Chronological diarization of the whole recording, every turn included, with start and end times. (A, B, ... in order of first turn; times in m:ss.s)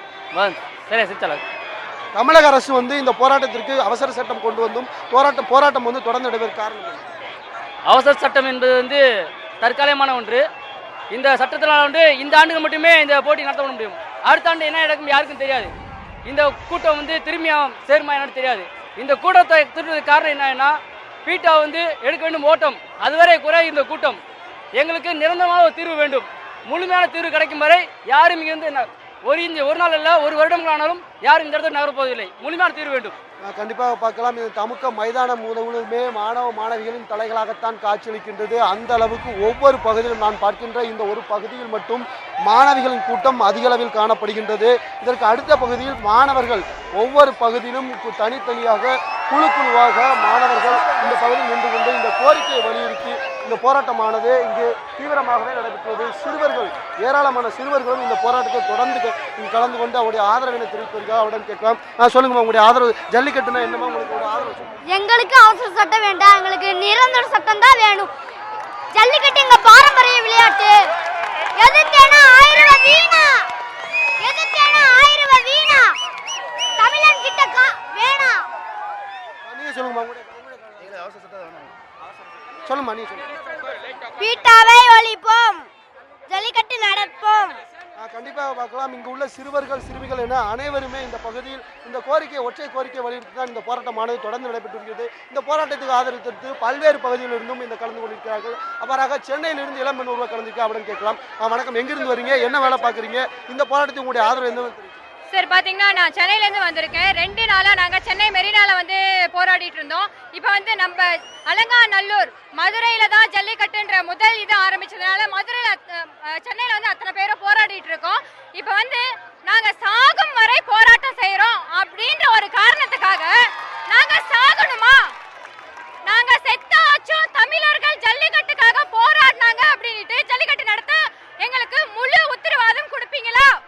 0:00.3-0:01.4 A
0:02.1-0:07.1 B
0:07.9-0:09.0 A
0:09.6-0:10.4 A
0:11.1-0:15.7 A
0:16.2-0:24.2 A
0:24.7-0:33.1 A
0:33.5-1:04.8 B
1:04.8-1:08.1 C
1:08.9-1:10.9 C
1:11.6-1:13.5 C
1:14.2-1:16.0 C
1:16.8-1:18.5 C
1:19.4-1:21.2 B
1:22.6-1:23.3 B
1:24.2-1:25.7 C
1:26.3-1:27.6 C
1:28.0-1:45.0 B
1:45.3-2:03.3 D
2:03.9-2:05.0 D
2:06.0-2:13.5 D